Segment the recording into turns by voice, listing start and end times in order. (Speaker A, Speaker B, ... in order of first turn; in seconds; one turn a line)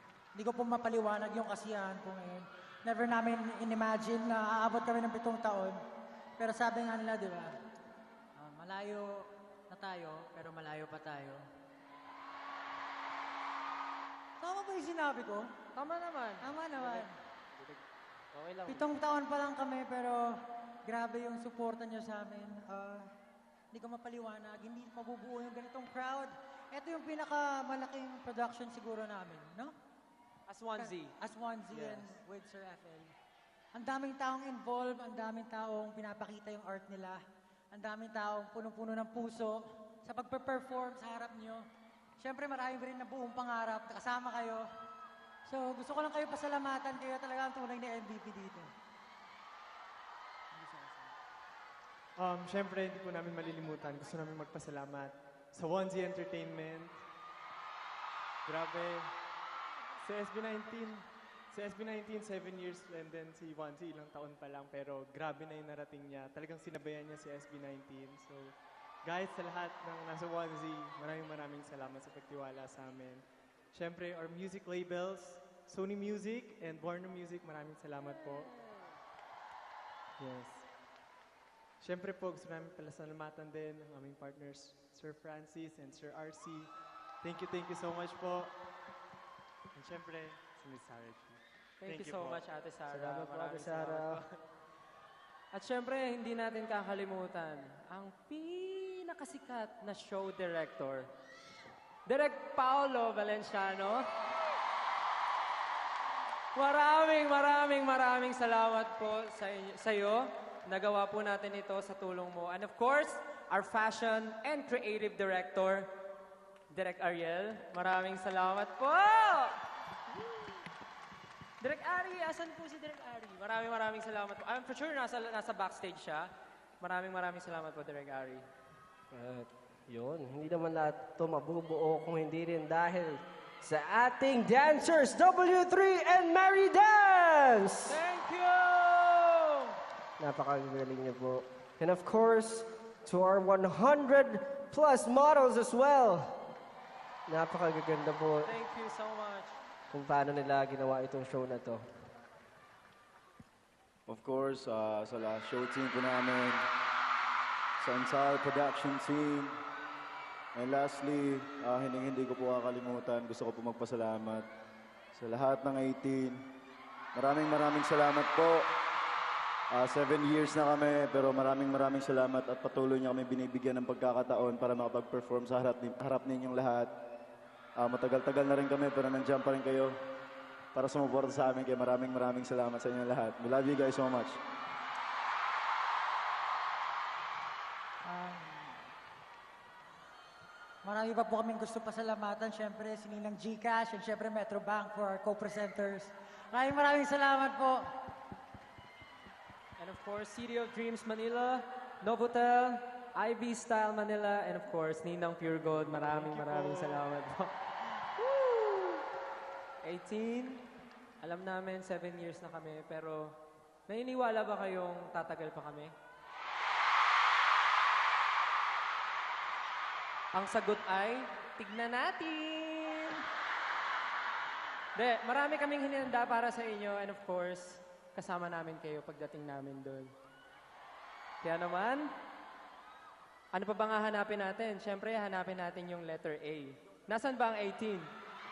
Speaker A: 0.3-5.8
Speaker A: 6.4-7.5
Speaker A: 8.4-11.4
Speaker A: 14.4-15.5
Speaker B: 15.8-17.1
Speaker A: 16.4-17.1
Speaker C: 18.3-18.8
Speaker A: 18.7-23.1
Speaker A: 23.7-29.7
Speaker B: 30.5-31.1
Speaker A: 30.8-33.1
Speaker A: 33.7-37.2
Speaker A: 37.7-41.6
Speaker A: 42.2-44.6
Speaker A: 45.5-48.7
Speaker A: 50.5-51.1
Speaker D: 52.2-57.0
Speaker D: 58.5-59.2
Speaker D: 60.0-78.6
Speaker D: 80.2-80.7
Speaker D: 81.8-86.7
Speaker D: 87.2-88.6
Speaker D: 89.7-92.4
Speaker B: 91.8-94.3
Speaker C: 92.9-94.2
Speaker B: 95.5-101.1
Speaker B: 102.1-104.1
Speaker B: 106.5-115.9
Speaker B: 116.7-119.6
Speaker B: 121.6-126.3
Speaker B: 126.8-128.5
Speaker C: 129.1-138.0
Speaker B: 137.9-139.8
Speaker C: 140.2-146.5
Speaker C: 147.3-148.5
Speaker B: 148.4-149.5
Speaker C: 149.9-151.9
Speaker E: 154.1-156.7
Speaker E: 157.8-159.6
Speaker E: 160.6-164.5
Speaker E: 165.1-166.4
Speaker E: 167.2-168.7
Speaker E: 169.7-176.9
Speaker E: 177.8-179.9
Speaker E: 180.7-184.4
Speaker A: 188.0-188.8
Speaker A: 190.8-197.9
Speaker B: 199.8-207.5
Speaker D: 205.9-207.1
Speaker B: 208.2-209.0
Speaker B: 209.8-210.7
Speaker B: 211.2-213.4
Speaker B: 213.9-215.9
Speaker B: 220.3-223.2
Speaker B: 224.9-230.1
Speaker B: 231.4-232.1
Speaker B: 233.5-238.1